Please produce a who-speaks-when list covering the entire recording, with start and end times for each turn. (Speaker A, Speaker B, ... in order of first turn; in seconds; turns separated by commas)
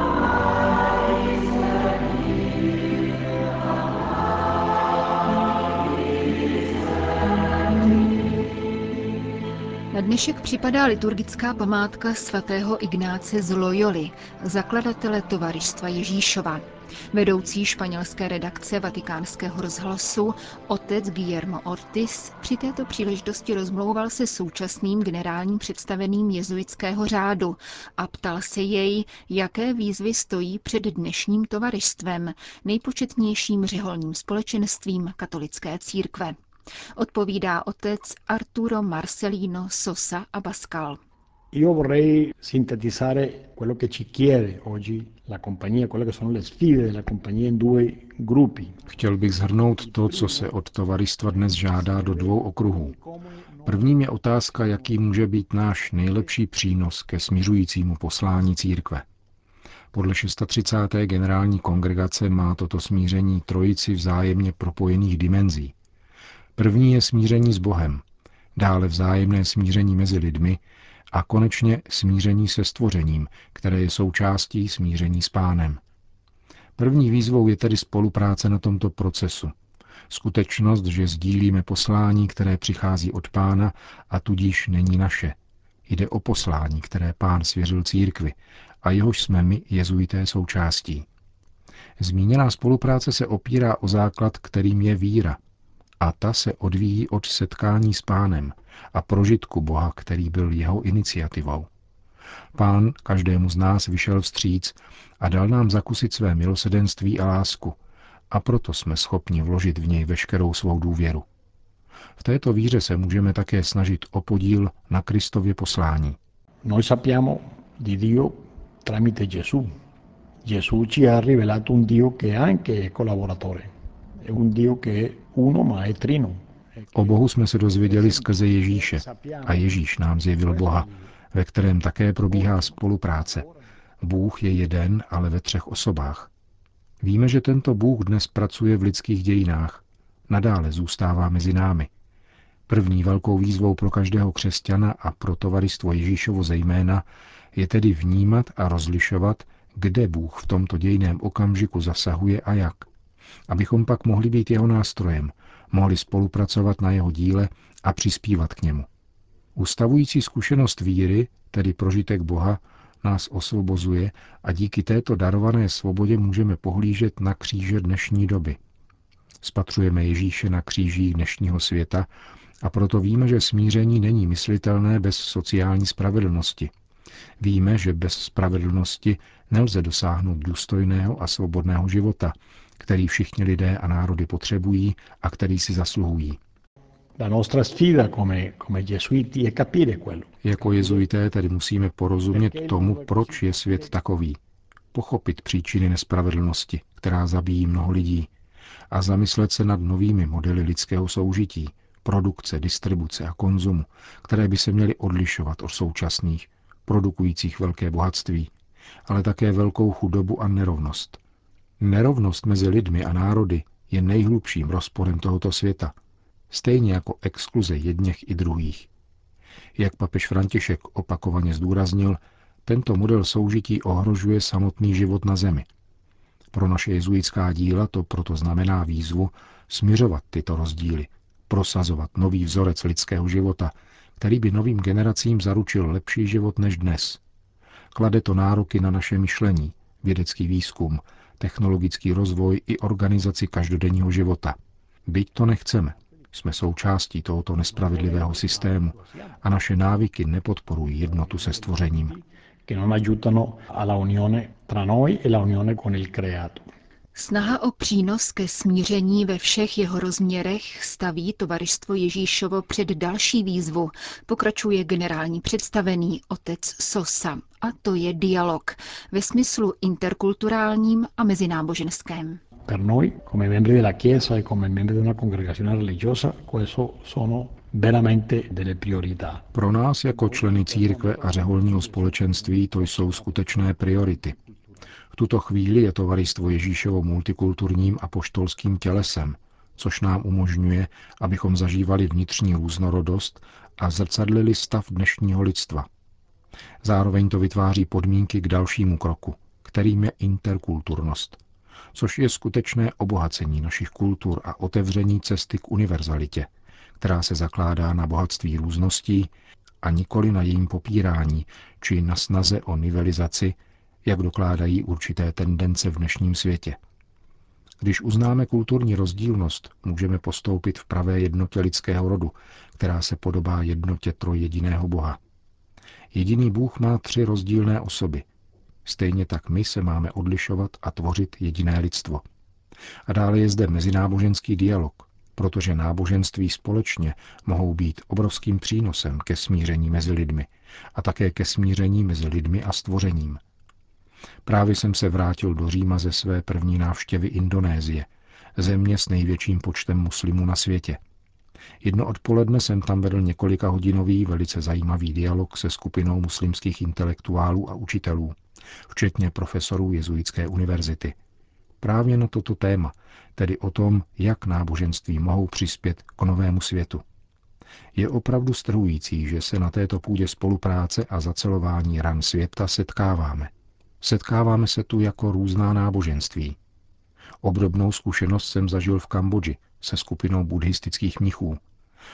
Speaker A: 9.9-36.4, Speaker A: 37.0-41.0, Speaker B: 41.5-48.8, Speaker C: 48.9-53.0, Speaker B: 49.8-55.0, Speaker C: 53.7-59.0, Speaker C: 59.9-65.7, Speaker C: 66.6-68.0, Speaker C: 68.5-70.6, Speaker C: 71.1-75.8, Speaker C: 76.8-79.5, Speaker C: 80.1-91.1, Speaker C: 92.0-95.4, Speaker C: 96.0-101.7, Speaker C: 102.5-107.8, Speaker C: 108.3-111.3, Speaker C: 112.2-116.2, Speaker B: 116.6-119.7, Speaker B: 120.4-129.8, Speaker C: 126.9-133.4, Speaker B: 130.5-131.1, Speaker B: 132.3-133.6, Speaker C: 134.0-136.3, Speaker C: 137.0-141.9, Speaker C: 142.7-152.9, Speaker C: 153.5-158.9, Speaker C: 159.6-168.6, Speaker C: 169.4-172.1, Speaker C: 172.6-176.7, Speaker C: 177.4-186.4, Speaker B: 187.2-191.1, Speaker C: 190.4-194.4, Speaker B: 192.3-193.9, Speaker C: 194.9-198.3, Speaker C: 198.9-208.5, Speaker C: 209.1-211.2, Speaker C: 211.8-215.9, Speaker C: 216.5-218.9, Speaker C: 219.8-225.7, Speaker C: 226.5-237.2, Speaker C: 237.9-252.2, Speaker B: 247.7-249.4, Speaker B: 251.0-256.7, Speaker A: 257.1-272.4, Speaker B: 272.6-279.5, Speaker C: 279.5-284.4, Speaker B: 280.1-284.7, Speaker C: 285.1-295.9, Speaker C: 296.8-301.4, Speaker C: 301.9-306.5, Speaker C: 307.0-309.3, Speaker C: 309.8-316.8, Speaker C: 317.8-325.2, Speaker C: 326.1-328.3, Speaker C: 328.9-332.2, Speaker C: 333.1-343.4, Speaker C: 344.4-351.0, Speaker C: 351.8-358.4, Speaker C: 358.9-361.2, Speaker C: 361.8-367.0, Speaker C: 367.9-376.6, Speaker C: 377.4-381.6